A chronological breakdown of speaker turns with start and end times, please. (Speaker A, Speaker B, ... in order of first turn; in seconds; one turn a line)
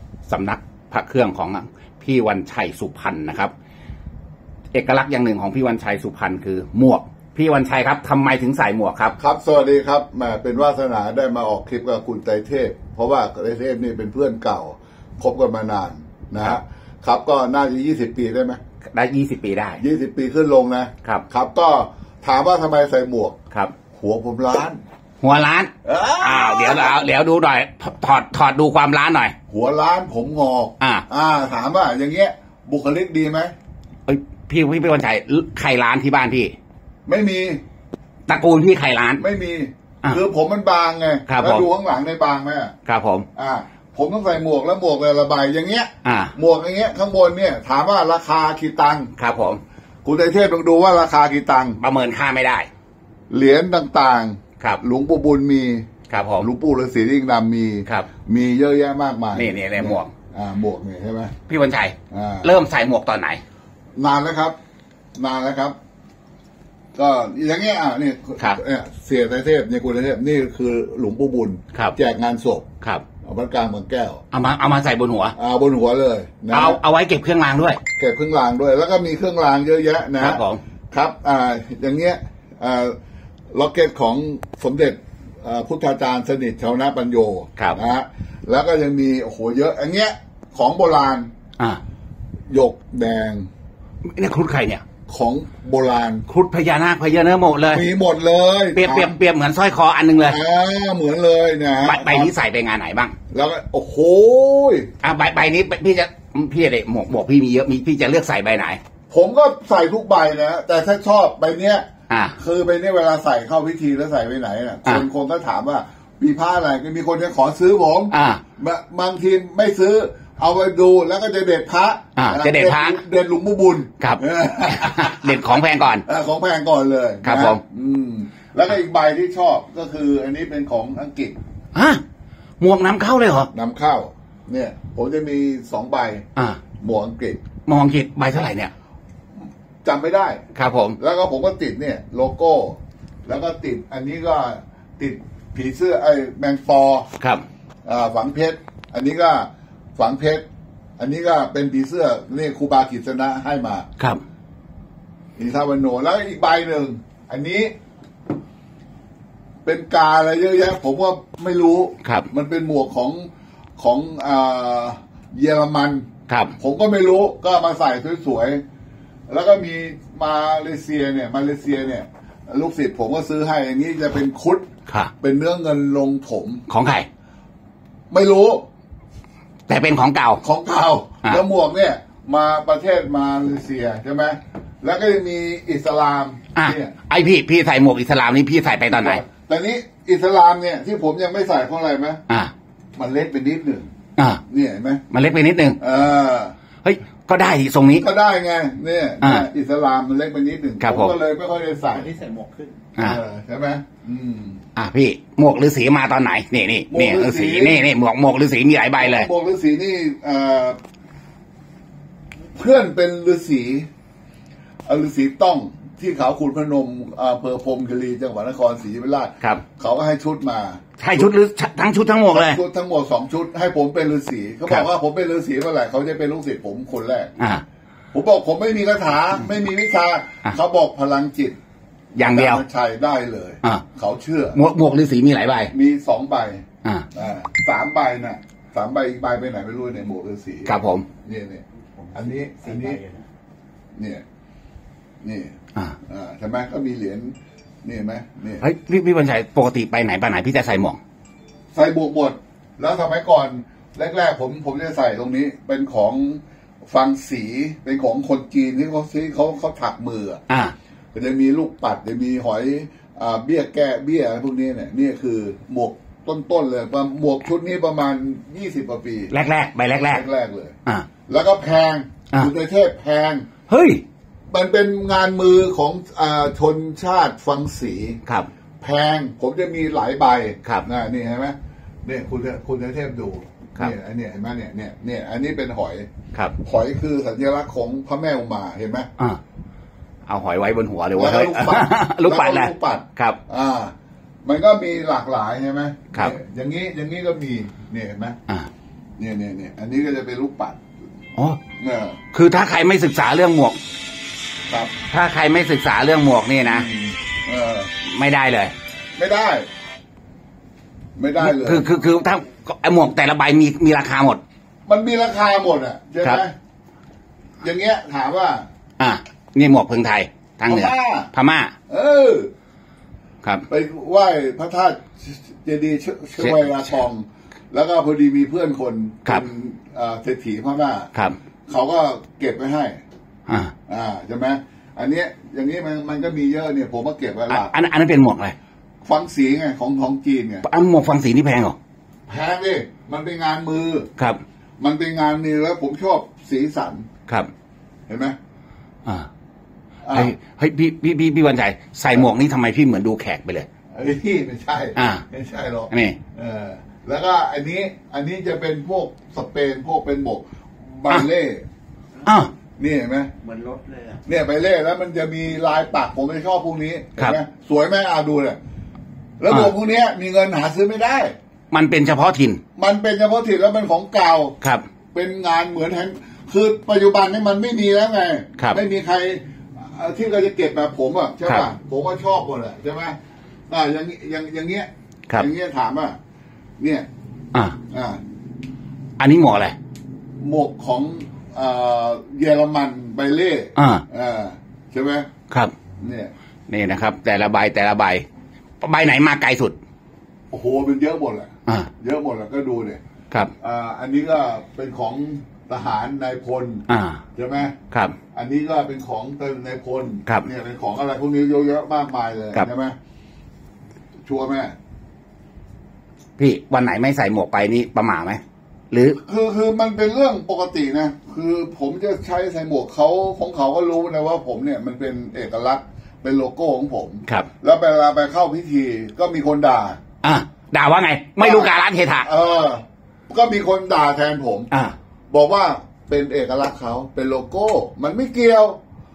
Speaker A: 0.3-3.5
Speaker A: 4.7-9.2
Speaker B: 9.2-18.6
Speaker A: 18.9-19.8
Speaker B: 19.8-23.4
Speaker B: 23.9-24.8
Speaker A: 25.2-29.4
Speaker B: 25.8-27.0
Speaker B: 29.5-33.5
Speaker A: 30.8-31.0
Speaker A: 34.1-36.5
Speaker B: 37.0-37.6
Speaker A: 38.3-39.2
Speaker B: 39.2-42.7
Speaker A: 41.3-41.7
Speaker A: 42.9-43.3
Speaker B: 43.4-49.1
Speaker A: 46.0-46.3
Speaker A: 49.2-49.6
Speaker B: 50.0-51.8
Speaker A: 51.8-52.7
Speaker B: 53.3-55.9
Speaker A: 56.1-56.5
Speaker B: 56.4-61.3
Speaker A: 59.4-60.1
Speaker A: 61.5-63.4
Speaker B: 62.1-62.5
Speaker B: 64.0-64.5
Speaker B: 65.2-65.7
Speaker B: 66.9-72.7
Speaker B: 73.2-74.2
Speaker A: 74.3-75.3
Speaker B: 75.3-76.8
Speaker A: 76.5-77.8
Speaker B: 78.0-82.9
Speaker A: 80.2-80.6
Speaker B: 83.5-91.3
Speaker A: 87.6-87.8
Speaker B: 92.5-93.5
Speaker A: 94.0-94.8
Speaker B: 95.1-96.2
Speaker A: 96.3-97.9
Speaker B: 97.7-99.1
Speaker A: 98.7-100.4
Speaker B: 100.2-102.3
Speaker A: 101.8-103.1
Speaker B: 103.3-104.9
Speaker A: 105.0-108.8
Speaker B: 109.1-111.8
Speaker A: 112.1-112.3
Speaker B: 112.4-131.4
Speaker A: 118.1-118.4
Speaker A: 122.2-123.0
Speaker A: 124.0-126.0
Speaker A: 127.2-127.6
Speaker A: 131.7-132.0
Speaker A: 132.6-133.5
Speaker B: 133.5-136.2
Speaker A: 136.3-136.6
Speaker B: 136.8-137.4
Speaker A: 137.7-138.7
Speaker B: 139.8-140.4
Speaker A: 140.5-141.0
Speaker B: 141.0-147.1
Speaker A: 147.2-147.4
Speaker B: 147.8-150.4
Speaker B: 151.0-153.9
Speaker B: 155.4-157.7
Speaker B: 159.6-166.1
Speaker A: 162.0-162.3
Speaker A: 166.3-166.5
Speaker B: 166.6-168.6
Speaker B: 169.3-174.6
Speaker B: 175.2-176.6
Speaker A: 176.7-177.1
Speaker B: 178.1-178.7
Speaker A: 179.7-180.4
Speaker B: 180.4-186.9
Speaker A: 186.5-189.2
Speaker B: 188.9-192.2
Speaker B: 192.9-193.9
Speaker A: 194.2-194.4
Speaker B: 194.5-195.0
Speaker A: 195.1-195.8
Speaker B: 195.8-196.5
Speaker A: 196.8-198.0
Speaker B: 198.0-202.2
Speaker A: 199.2-199.5
Speaker A: 200.8-201.2
Speaker C: 201.9-202.8
Speaker B: 203.0-204.6
Speaker A: 204.8-209.3
Speaker B: 206.9-207.8
Speaker B: 209.0-210.8
Speaker B: 212.5-213.9
Speaker B: 214.8-221.3
Speaker A: 221.0-222.6
Speaker B: 222.3-227.3
Speaker B: 228.1-231.6
Speaker A: 232.1-232.6
Speaker B: 232.1-234.6
Speaker A: 234.5-235.7
Speaker B: 235.7-243.0
Speaker A: 240.7-241.1
Speaker C: 242.0-243.2
Speaker B: 243.9-244.2
Speaker B: 245.2-245.5
Speaker B: 246.1-248.7
Speaker A: 248.6-251.0
Speaker B: 251.7-260.4
Speaker A: 260.5-260.7
Speaker B: 261.1-269.3
Speaker A: 269.3-270.2
Speaker B: 270.1-270.8
Speaker B: 271.3-273.4
Speaker A: 273.7-274.0
Speaker B: 274.5-278.2
Speaker B: 278.8-286.1
Speaker B: 286.6-289.1
Speaker A: 290.3-293.4
Speaker B: 291.1-298.4
Speaker B: 299.2-300.8
Speaker B: 301.8-302.2
Speaker A: 302.3-303.8
Speaker B: 304.7-304.9
Speaker A: 305.1-306.9
Speaker B: 306.6-307.9
Speaker A: 308.0-308.7
Speaker B: 309.1-309.7
Speaker B: 311.1-311.9
Speaker A: 311.4-314.4
Speaker B: 314.9-316.5
Speaker B: 317.6-318.6
Speaker A: 319.0-321.8
Speaker B: 320.7-321.3
Speaker B: 321.9-322.5
Speaker B: 323.7-331.1
Speaker A: 326.4-326.8
Speaker B: 331.7-333.0
Speaker A: 333.5-333.7
Speaker B: 333.9-337.7
Speaker A: 337.5-338.6
Speaker B: 339.0-340.6
Speaker A: 340.6-341.8
Speaker B: 342.3-344.1
Speaker B: 344.8-347.1
Speaker B: 348.1-348.4
Speaker B: 350.0-350.3
Speaker A: 350.1-353.7
Speaker B: 353.9-361.6
Speaker A: 354.9-355.2
Speaker A: 355.9-356.2
Speaker A: 362.2-362.5
Speaker B: 362.8-363.3
Speaker C: 363.4-364.2
Speaker B: 364.2-368.6
Speaker B: 369.4-371.3
Speaker A: 369.5-369.7
Speaker A: 371.7-372.6
Speaker B: 372.8-374.6
Speaker B: 375.1-383.1
Speaker B: 383.7-386.2
Speaker B: 386.8-387.1
Speaker B: 387.9-388.2
Speaker A: 389.2-389.8
Speaker B: 390.4-395.3
Speaker A: 393.8-394.0
Speaker B: 396.0-396.3
Speaker A: 396.7-398.2
Speaker A: 398.8-399.8
Speaker B: 400.5-403.0
Speaker B: 403.6-406.8
Speaker A: 406.9-407.2
Speaker B: 407.4-407.8
Speaker A: 407.9-408.1
Speaker B: 408.3-412.9
Speaker B: 414.2-414.7
Speaker A: 416.4-419.2
Speaker B: 419.2-430.0
Speaker A: 430.2-432.3
Speaker B: 431.4-434.7
Speaker B: 435.3-438.8